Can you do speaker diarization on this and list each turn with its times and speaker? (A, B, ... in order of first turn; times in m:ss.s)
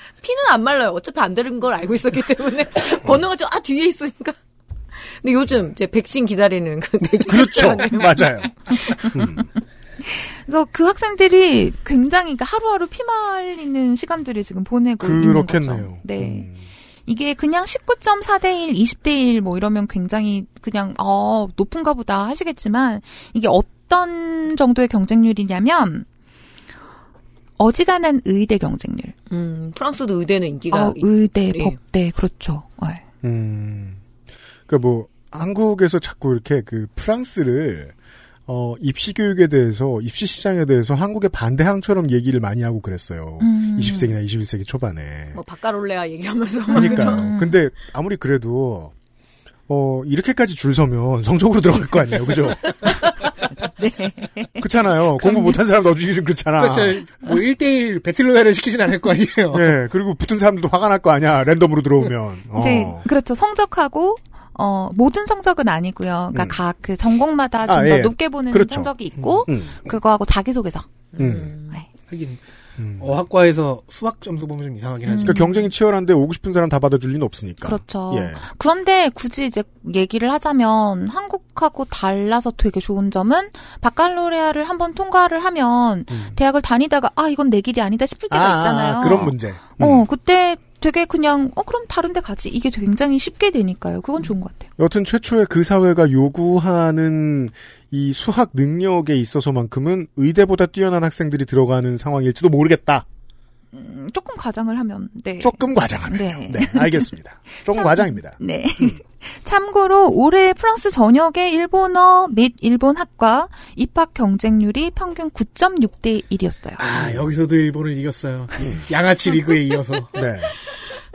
0:00.2-0:04.4 A
0:05.1-0:09.0 A
0:07.2-0:08.5 B
0:09.1-0:09.5 B
0:10.0-0:16.5 C
0:15.0-0:16.7 B
0:17.0-0:26.0 C
0:27.6-0:29.1 C
0:29.3-0:31.8 A
0:30.7-0:33.0 C
0:33.2-0:34.0 B
0:34.7-0:37.9 B
0:38.5-0:45.4 B
0:43.4-0:44.2 C
0:45.3-0:47.3 A
0:46.7-0:47.5 C
0:46.7-0:48.9 B
0:49.7-0:52.9 B
0:53.8-0:55.6 C
0:54.6-0:57.0 B
0:56.6-0:59.7 D
0:59.5-1:03.0 B
1:02.6-1:10.9 C
1:06.3-1:06.6 B
1:07.6-1:08.9 B
1:09.5-1:09.8 B
1:11.2-1:11.8 A
1:11.2-1:11.5 B
1:12.0-1:12.4 D
1:12.8-1:13.1 B
1:13.0-1:15.4 D
1:15.0-1:15.7 C
1:15.2-1:18.4 B
1:17.6-1:34.7 C
1:26.1-1:26.4 B
1:28.3-1:30.0 B
1:34.8-1:43.0 B
1:43.7-1:56.8 C
1:45.4-1:49.0 B
1:56.8-2:00.2 D
1:57.0-1:57.2 B
2:00.1-2:00.5 B